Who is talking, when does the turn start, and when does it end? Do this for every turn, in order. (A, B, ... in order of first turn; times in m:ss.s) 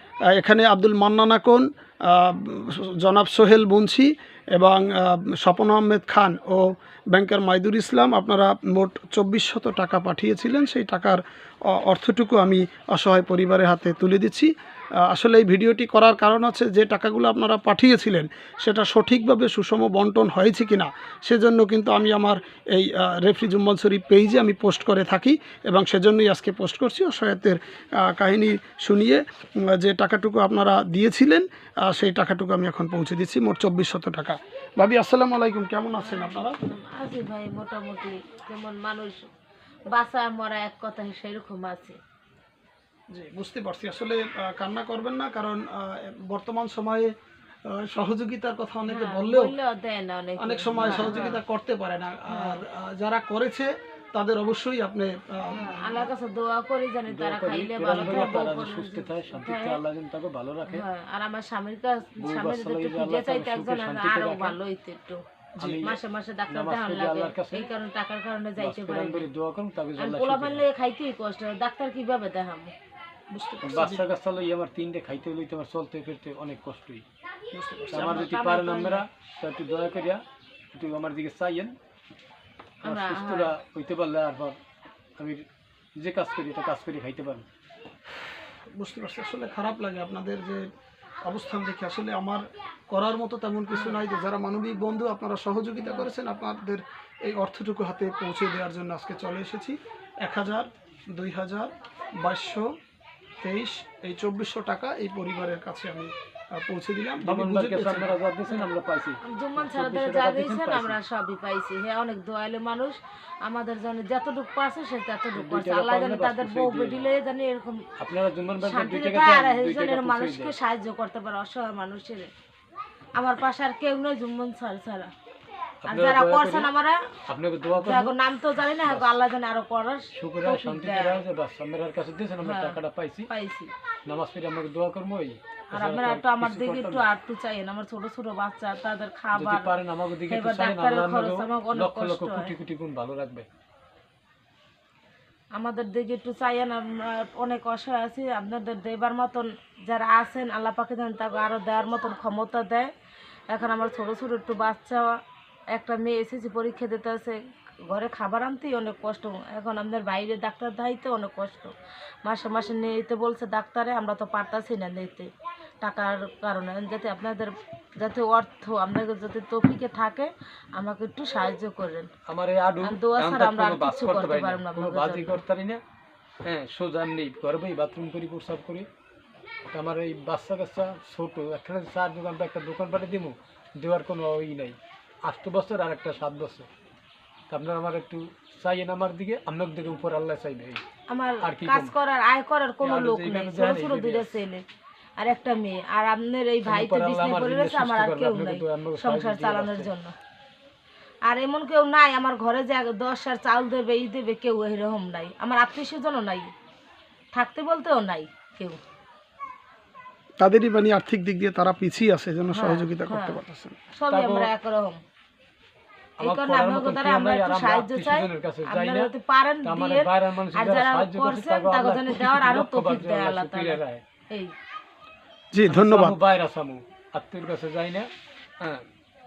0:00.3-0:36.6 A
0:36.0-0:39.3 B
0:39.9-0:42.0 B
0:43.1-0:47.1 A
0:47.7-0:49.5 A
0:48.9-0:51.4 B
0:50.4-0:56.1 A
0:50.8-0:51.2 C
0:52.3-0:52.6 B
0:55.5-0:59.8 B
0:57.1-1:00.8 C
0:58.0-0:58.3 A
1:00.7-1:05.2 B
1:02.2-1:04.6 C
1:05.6-1:05.8 A
1:05.6-1:07.7 C
1:05.8-1:09.3 B
1:08.6-1:10.6 C
1:10.0-1:12.7 B
1:13.3-1:14.0 A
1:13.6-1:17.0 C
1:17.5-1:18.3 A
1:17.9-1:21.8 C
1:17.9-1:19.0 B
1:22.8-1:23.5 B
1:22.8-1:24.6 C
1:25.2-1:25.4 C
1:26.0-1:27.4 C
1:28.7-1:30.6 A
1:31.2-1:42.7 A
1:35.8-1:36.1 B
1:43.4-1:48.1 A
1:47.2-1:51.0 C
1:49.2-1:57.8 B
1:55.3-1:57.1 C
1:58.0-2:00.5 C
1:58.6-2:02.3 B
2:03.2-2:05.1 B
2:05.8-2:06.7 C
2:05.9-2:07.1 B
2:07.3-2:08.1 C
2:07.7-2:11.2 B
2:08.8-2:09.2 C
2:10.1-2:13.3 C
2:12.4-2:13.7 B
2:14.1-2:17.0 C
2:15.7-2:22.5 B
2:19.3-2:23.5 C
2:25.6-2:32.9 B
2:33.5-2:35.2 B
2:35.7-2:37.4 B
2:37.9-2:45.3 B
2:45.8-2:52.1 B
2:52.2-2:55.8 C
2:52.8-2:55.4 B
2:56.4-2:58.9 C
2:59.7-3:06.7 C
3:07.5-3:10.8 C
3:11.1-3:14.6 B
3:11.4-3:11.9 C
3:12.8-3:14.3 C
3:15.2-3:20.1 B
3:16.6-3:19.9 C
3:21.2-3:26.5 B
3:27.3-3:28.8 B
3:30.4-3:33.8 A
3:32.5-3:33.4 B
3:33.9-3:35.0 B
3:34.1-3:34.5 C
3:36.2-3:39.1 C
3:36.2-3:44.5 B
3:39.6-3:44.0 C
3:45.5-3:46.2 A
3:45.7-3:48.8 C